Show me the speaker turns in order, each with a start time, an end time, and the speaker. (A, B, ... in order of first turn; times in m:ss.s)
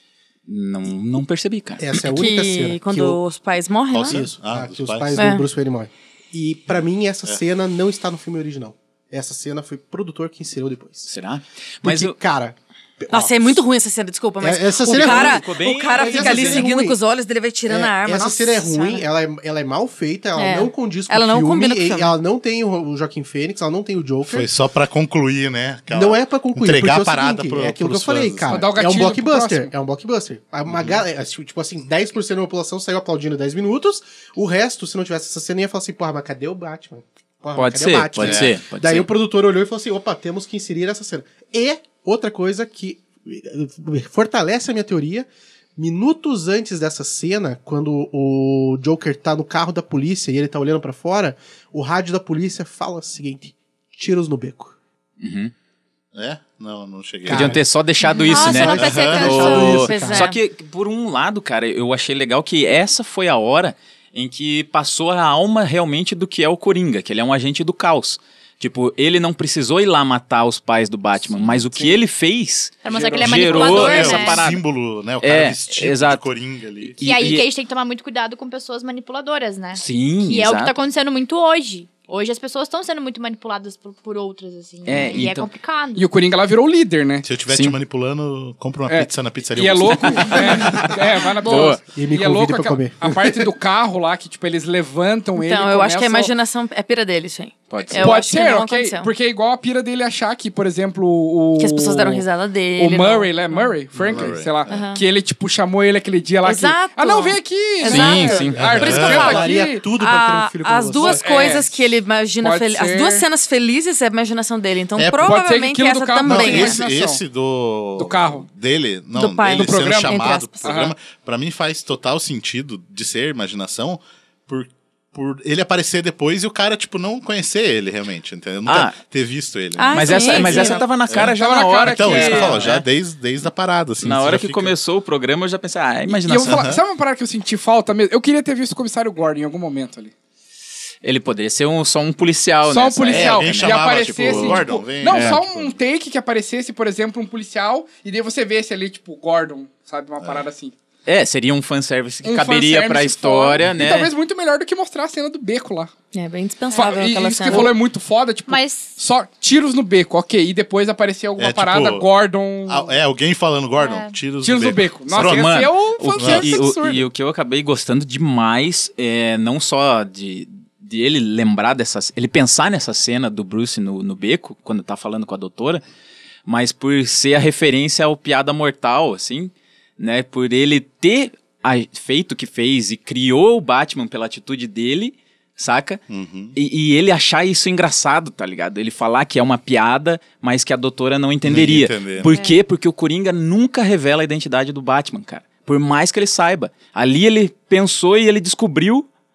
0:00.5-0:01.9 A
0:01.8-0:03.2 B
0:02.1-0:04.2 C
0:03.9-0:05.3 D
0:04.0-0:11.1 B
0:05.2-0:05.4 C
0:11.1-0:12.2 A
0:11.8-0:13.6 B
0:13.1-0:19.0 C
0:14.4-0:17.0 B
0:14.9-0:16.7 A
0:17.7-0:24.5 B
0:20.4-0:22.2 C
0:24.2-0:28.6 D
0:25.9-0:54.8 B
0:28.5-0:29.7 E
0:30.7-0:31.0 D
0:37.5-0:39.1 A
0:38.2-0:38.6 D
0:55.2-0:55.5 A
0:56.1-0:57.6 D
0:57.2-0:57.6 B
0:57.3-1:14.6 A
0:58.1-1:00.4 C
0:58.1-0:59.8 F
0:58.3-1:00.3 B
0:58.7-0:59.6 D
1:11.6-1:12.0 E
1:12.8-1:14.4 F
1:12.9-1:13.8 E
1:13.5-1:17.3 D
1:15.2-1:16.2 A
1:17.0-1:17.5 A
1:17.0-1:26.1 F
1:19.7-1:20.8 A
1:24.8-1:25.5 A
1:26.0-1:27.3 E
1:27.2-1:31.0 D
1:27.5-1:27.8 A
1:28.9-1:36.3 E
1:30.2-1:31.8 A
1:31.4-1:31.8 F
1:31.9-1:33.1 B
1:35.4-1:39.1 C
1:37.7-1:38.2 A
1:37.9-1:42.2 E
1:41.6-1:43.7 C
1:42.8-1:49.8 E
1:44.0-1:44.8 D
1:44.7-1:45.0 C
1:46.4-1:56.8 C
1:47.8-1:48.6 A
1:48.4-1:51.6 B
1:48.6-1:49.4 D
1:51.0-1:51.7 E
1:52.4-1:53.2 E
1:55.0-1:55.3 D
1:55.2-1:57.2 E
1:56.2-2:14.7 D
1:58.0-1:58.5 E
1:59.1-2:00.7 C
1:59.5-2:00.9 E
2:08.6-2:09.0 A
2:09.8-2:10.8 C
2:09.9-2:12.8 A
2:11.2-2:12.7 E
2:14.0-2:16.7 A
2:16.1-2:20.1 E
2:16.4-2:16.8 D
2:21.0-2:25.4 A
2:22.6-2:30.7 E
2:23.1-2:25.8 D
2:30.2-2:30.4 D
2:31.0-2:34.1 A
2:32.2-2:35.9 E
2:36.1-2:37.7 C
2:36.7-2:37.7 F
2:36.7-2:42.9 E
2:38.5-2:39.0 F
2:41.4-2:42.1 D
2:42.6-2:46.7 D
2:43.8-2:44.2 F
2:44.4-2:47.0 E
2:45.2-2:55.8 A
2:56.4-3:06.0 A
3:06.1-3:06.6 D
3:06.5-3:19.1 A
3:11.4-3:12.3 D
3:12.2-3:12.6 C